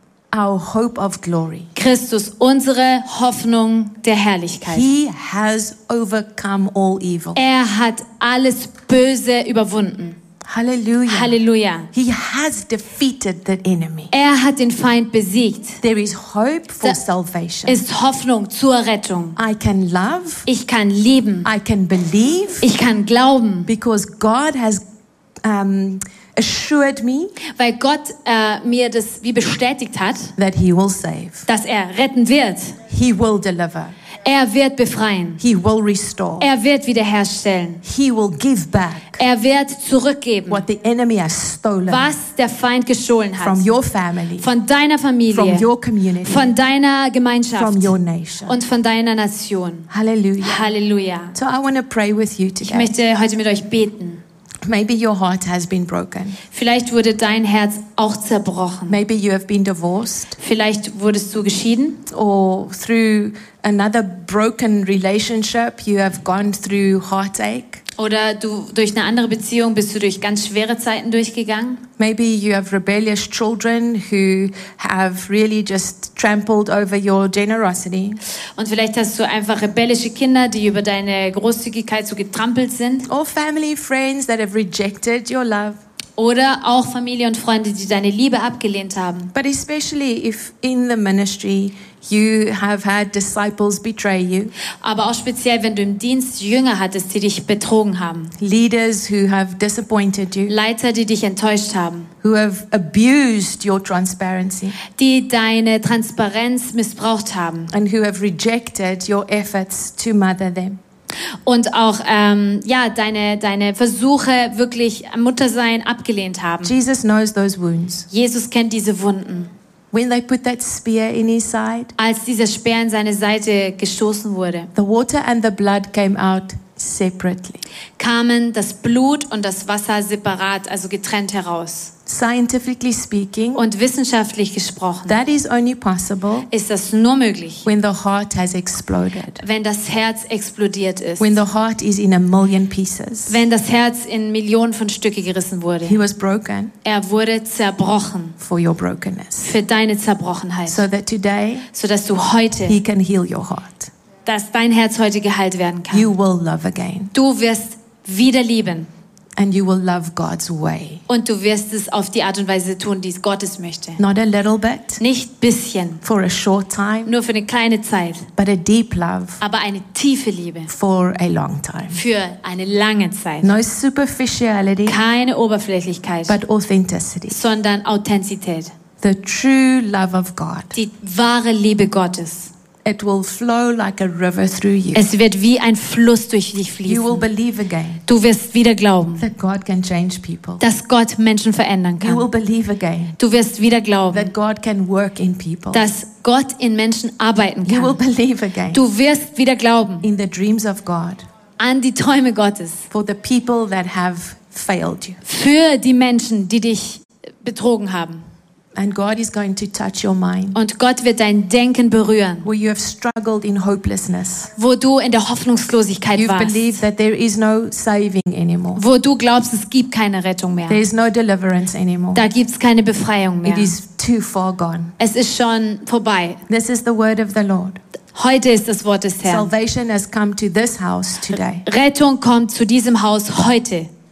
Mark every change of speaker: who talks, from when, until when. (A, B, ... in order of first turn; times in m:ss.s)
0:00.3-0:01.7 A
0:01.8-0:04.9 B
0:04.7-0:07.4 A
0:07.4-0:10.2 B
0:10.4-0:11.4 A
0:11.1-0:11.9 B
0:11.9-0:14.1 A
0:14.1-0:15.8 B
0:15.8-0:17.8 A
0:17.7-0:19.4 B
0:19.4-0:20.5 A
0:20.5-0:21.5 B
0:21.4-0:22.7 A
0:22.6-0:23.7 B
0:23.7-0:24.8 A
0:25.4-0:27.3 A
0:27.6-0:30.3 B
0:30.4-0:31.5 A
0:31.5-0:32.8 B
0:32.9-0:34.0 A
0:34.2-0:35.4 B
0:35.4-0:36.5 A
0:36.4-0:37.8 B
0:37.8-0:39.2 A
0:39.2-0:40.6 B
0:40.5-0:42.1 A
0:41.9-0:43.7 B
0:43.4-0:44.5 A
0:44.4-0:45.7 B
0:45.3-0:46.5 A
0:46.2-0:47.9 B
0:47.6-0:48.6 A
0:48.5-0:49.9 B
0:49.9-0:50.7 A
0:50.4-0:51.4 B
0:51.4-0:52.9 A
0:52.6-0:54.2 B
0:54.6-0:56.4 A
0:56.5-0:59.0 B
0:58.9-1:00.4 A
1:00.4-1:02.0 B
1:02.1-1:07.8 A
1:08.0-1:11.8 B
1:12.0-1:18.2 A
1:18.6-1:23.1 B
1:23.1-1:25.8 A
1:26.2-1:29.3 B
1:29.3-1:34.5 A
1:34.8-1:38.3 B
1:38.4-1:40.5 A
1:40.5-1:42.1 B
1:42.2-1:44.8 A
1:44.9-1:47.7 B
1:47.7-1:50.8 A
1:51.5-1:56.8 B
1:56.6-1:58.1 A
1:58.1-1:59.5 B
1:59.9-2:01.9 A
2:02.0-2:04.7 B
2:04.8-2:07.6 A
2:08.0-2:11.9 B
2:12.1-2:13.6 A
2:13.6-2:15.2 B
2:15.1-2:16.5 A
2:16.5-2:17.6 B
2:17.6-2:19.4 A
2:19.4-2:21.4 B
2:21.2-2:23.4 A
2:23.3-2:26.0 B
2:25.8-2:26.7 A
2:26.8-2:28.4 B
2:28.4-2:29.6 A
2:29.4-2:30.8 B
2:30.7-2:31.7 A
2:31.7-2:32.8 B
2:32.6-2:33.9 A
2:34.2-2:36.1 B
2:35.9-2:37.1 A
2:37.1-2:38.9 B
2:39.4-2:41.0 A
2:41.1-2:44.0 B
2:44.0-2:45.0 A
2:45.0-2:46.0 B
2:46.0-2:47.1 A
2:47.1-2:48.3 B
2:48.4-2:49.4 A
2:49.4-2:50.7 B
2:50.7-2:52.0 A
2:51.9-2:53.5 B
2:53.4-2:55.0 A
2:54.9-2:56.4 B
2:56.3-2:57.4 A
2:57.3-2:58.7 B
2:59.0-3:00.8 A
3:00.7-3:02.5 B
3:02.8-3:05.1 A
3:04.9-3:07.3 B
3:06.8-3:08.0 A
3:08.1-3:09.2 B
3:09.2-3:10.6 A
3:10.6-3:12.3 B
3:12.0-3:13.2 A
3:13.2-3:14.3 B
3:14.1-3:15.9 A
3:15.7-3:18.0 B
3:17.7-3:18.8 A
3:18.7-3:20.1 B
3:20.0-3:21.2 A
3:21.6-3:22.9 B
3:22.9-3:25.2 A
3:25.2-3:28.2 B
3:28.8-3:30.6 A
3:30.5-3:32.5 B
3:32.4-3:34.5 A
3:34.6-3:36.8 B
3:36.2-3:38.8 A
3:38.8-3:40.8 B
3:40.7-3:42.2 A
3:42.1-3:43.7 B
3:43.4-3:44.9 A
3:45.0-3:46.4 B
3:46.5-3:47.8 A
3:48.1-3:49.5 B
3:49.2-3:51.6 A
3:51.3-3:53.9 B